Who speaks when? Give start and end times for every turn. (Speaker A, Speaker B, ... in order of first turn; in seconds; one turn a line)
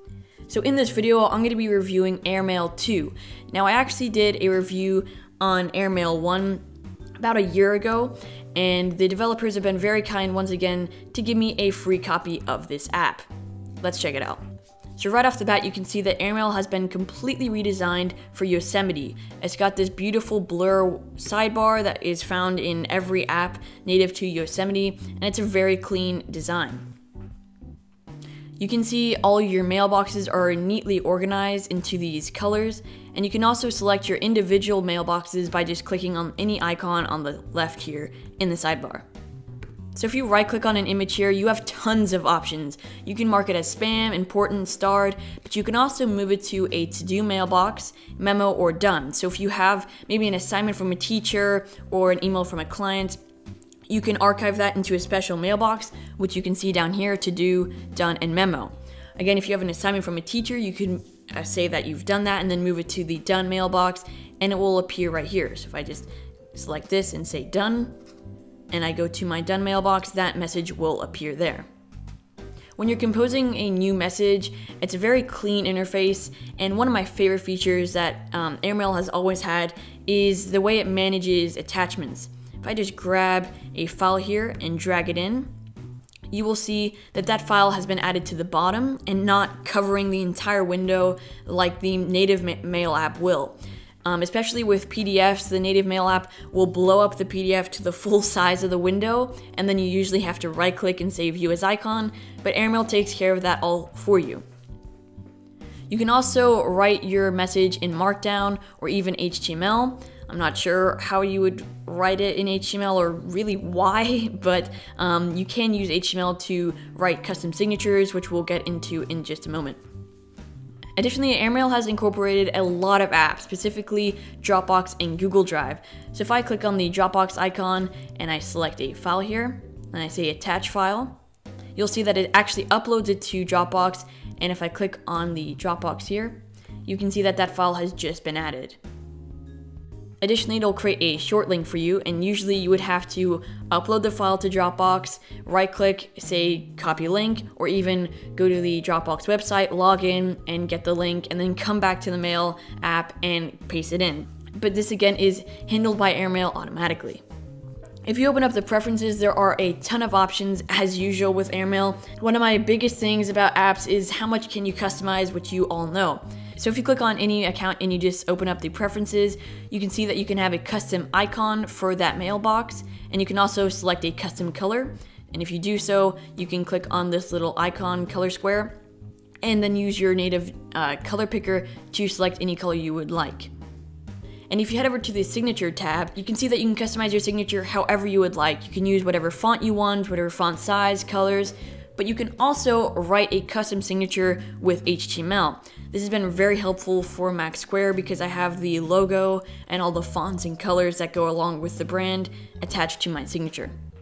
Speaker A: 0.5-6.6
Speaker A: 7.2-13.3
Speaker A: 13.8-14.4
Speaker A: 14.9-26.9
Speaker A: 28.6-39.0
Speaker A: 39.9-53.2
Speaker A: 53.9-67.9
Speaker A: 68.7-71.7
Speaker A: 72.8-85.5
Speaker A: 86.3-104.4
Speaker A: 105.9-119.8
Speaker A: 121.0-131.2
Speaker A: 131.8-138.8
Speaker A: 140.2-157.2
Speaker A: 158.1-178.8
Speaker A: 179.4-183.5
Speaker A: 184.5-203.7